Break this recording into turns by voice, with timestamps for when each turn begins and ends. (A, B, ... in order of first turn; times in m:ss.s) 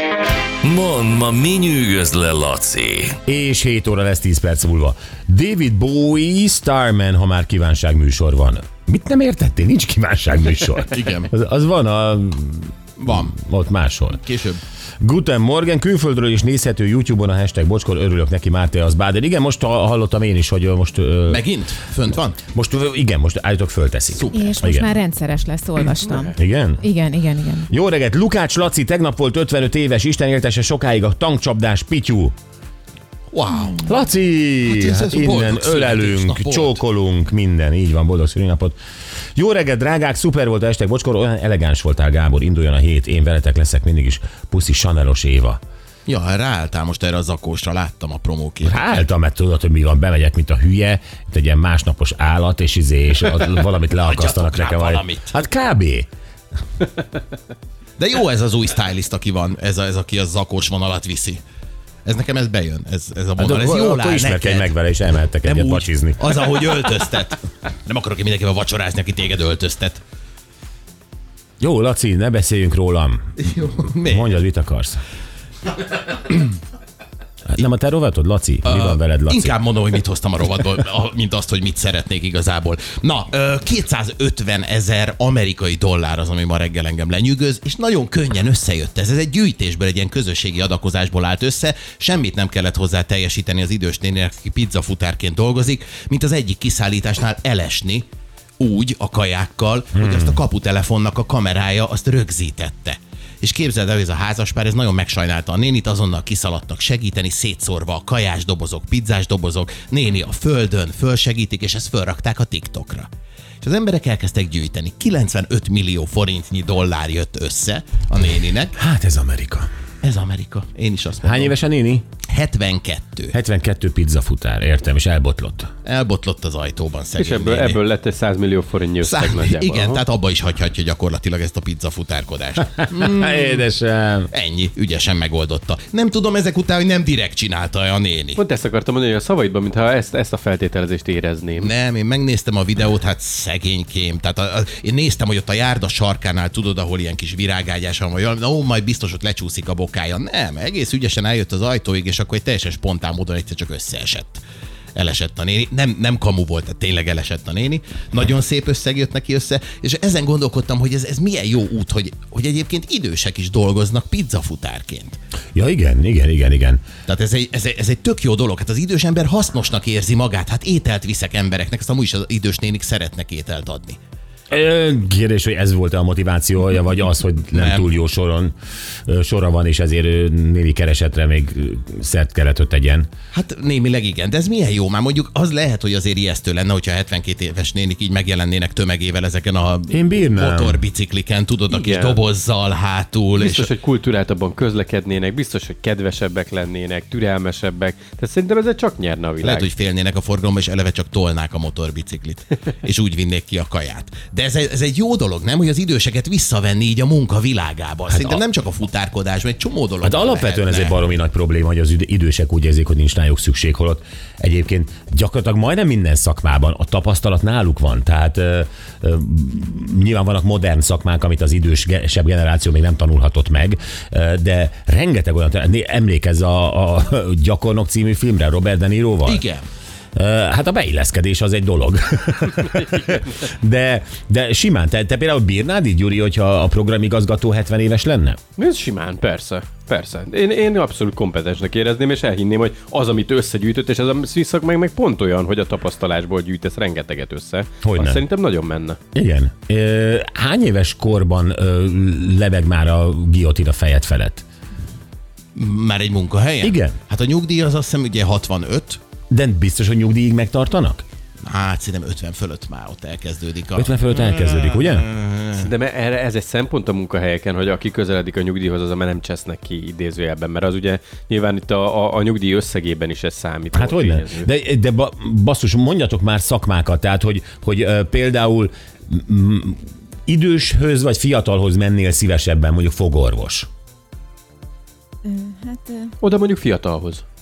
0:00.6-0:03.2 A
0:03.2-0:14.2 B
0:10.9-0:11.3 C
0:13.0-0:13.4 C
0:14.2-0:14.6 C
0:15.0-0:21.5 B
0:21.3-0:22.4 C
0:22.5-0:24.9 B
0:24.1-0:24.7 C
0:24.4-0:27.7 D
0:26.0-0:26.4 E
0:26.4-0:26.9 B
0:27.7-0:32.3 B
0:33.3-0:33.9 C
0:33.8-0:38.8 B
0:34.6-0:36.8 C
0:39.4-0:45.6 B
0:46.1-0:48.9 C
0:48.6-0:56.1 B
0:54.0-0:55.3 C
0:58.0-1:01.4 C
1:02.0-1:04.7 C
1:03.4-1:06.3 B
1:05.4-1:10.0 C
1:11.6-1:13.3 B
1:13.4-1:14.3 C
1:14.0-1:15.0 B
1:17.5-1:19.6 B
1:18.6-1:38.1 C
1:38.6-1:53.1 C
1:40.0-1:40.4 B
1:53.6-1:58.8 C
1:58.8-1:59.7 B
2:00.0-2:01.6 C
2:01.2-2:02.1 B
2:02.2-2:03.4 C
2:03.3-2:05.7 B
2:05.8-2:07.8 C
2:07.2-2:10.0 E
2:09.0-2:13.6 C
2:12.8-2:14.3 B
2:14.3-2:18.4 C
2:18.4-2:21.7 E
2:21.6-2:34.4 C
2:35.0-2:45.2 C
2:45.6-2:46.8 B
2:47.1-2:54.0 C
2:54.5-2:58.5 B
2:57.5-2:57.9 C
2:59.1-3:03.1 B
3:03.3-3:13.7 C
3:09.9-3:10.8 B
3:11.7-3:12.2 E
3:13.4-3:19.7 E
3:19.4-3:31.0 C
3:28.1-3:28.4 B
3:30.0-3:49.4 B
3:49.2-3:49.6 C
3:50.2-3:58.4 B
3:58.6-4:09.0 E
4:07.8-4:08.2 B
4:09.1-4:14.4 B
4:15.6-4:19.0 C
4:16.6-4:17.0 B
4:19.3-4:21.0 B
4:21.4-4:25.7 C
4:23.8-4:25.1 B
4:25.6-4:34.5 E
4:33.7-4:43.7 B
4:45.6-4:46.0 D
4:46.2-4:47.2 E